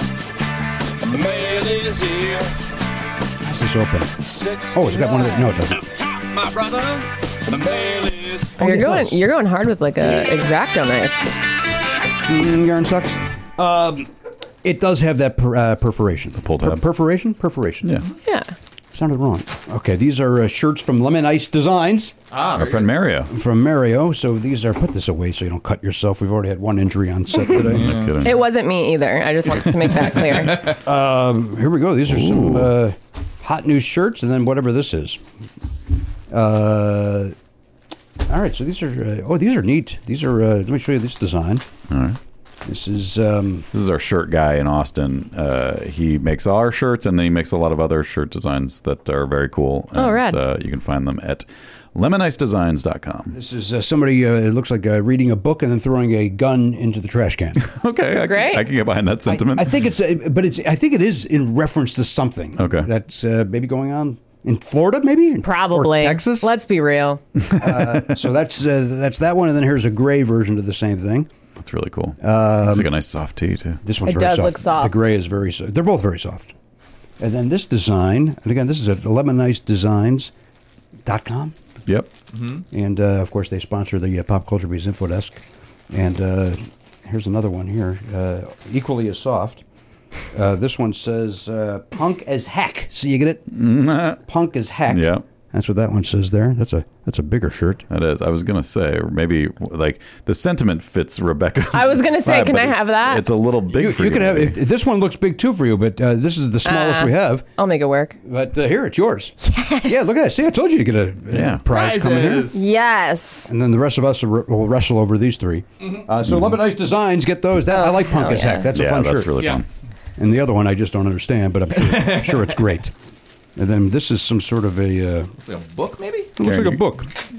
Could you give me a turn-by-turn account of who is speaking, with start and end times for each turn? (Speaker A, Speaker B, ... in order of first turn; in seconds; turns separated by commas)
Speaker A: 1.0-2.6, Speaker B: 3.4-5.9, Speaker A: 4.2-8.6, Speaker C: 8.6-11.3, Speaker B: 8.6-9.2, Speaker B: 12.3-14.1, Speaker B: 14.6-17.9, Speaker D: 16.4-16.9, Speaker C: 18.1-18.6, Speaker B: 18.9-22.1, Speaker E: 22.3-22.9, Speaker D: 22.5-23.3, Speaker B: 23.3-28.0, Speaker D: 27.5-28.4, Speaker E: 27.7-28.2, Speaker C: 28.2-30.8, Speaker B: 30.8-35.2, Speaker D: 32.1-32.8, Speaker B: 36.3-37.4, Speaker B: 38.3-41.7, Speaker D: 41.9-42.2, Speaker B: 42.6-43.7, Speaker D: 43.7-53.4, Speaker C: 50.0-50.4, Speaker B: 53.3-57.6, Speaker D: 57.6-59.8, Speaker C: 58.1-58.7, Speaker B: 59.3-66.5, Speaker D: 62.6-62.9, Speaker C: 65.4-67.2, Speaker B: 67.5-71.3, Speaker D: 71.6-73.8, Speaker B: 72.2-72.9, Speaker B: 73.8-76.5, Speaker C: 74.0-74.9, Speaker B: 77.2-80.3, Speaker B: 81.0-81.6, Speaker E: 82.3-82.6, Speaker B: 82.7-89.6, Speaker B: 90.3-93.5, Speaker D: 93.5-94.2, Speaker B: 94.2-97.8, Speaker D: 94.9-95.2, Speaker D: 97.9-104.6, Speaker C: 101.7-103.3, Speaker B: 103.7-107.5, Speaker C: 106.7-108.2, Speaker B: 108.2-112.5, Speaker C: 109.4-110.1, Speaker D: 111.3-111.6, Speaker E: 111.7-112.6, Speaker C: 112.5-113.5, Speaker B: 113.5-119.5, Speaker C: 117.7-118.7, Speaker D: 118.7-119.7, Speaker E: 119.4-119.6, Speaker B: 120.2-122.9, Speaker E: 121.9-122.4, Speaker B: 123.6-125.3, Speaker E: 125.5-126.3, Speaker B: 126.4-127.1, Speaker D: 126.4-126.8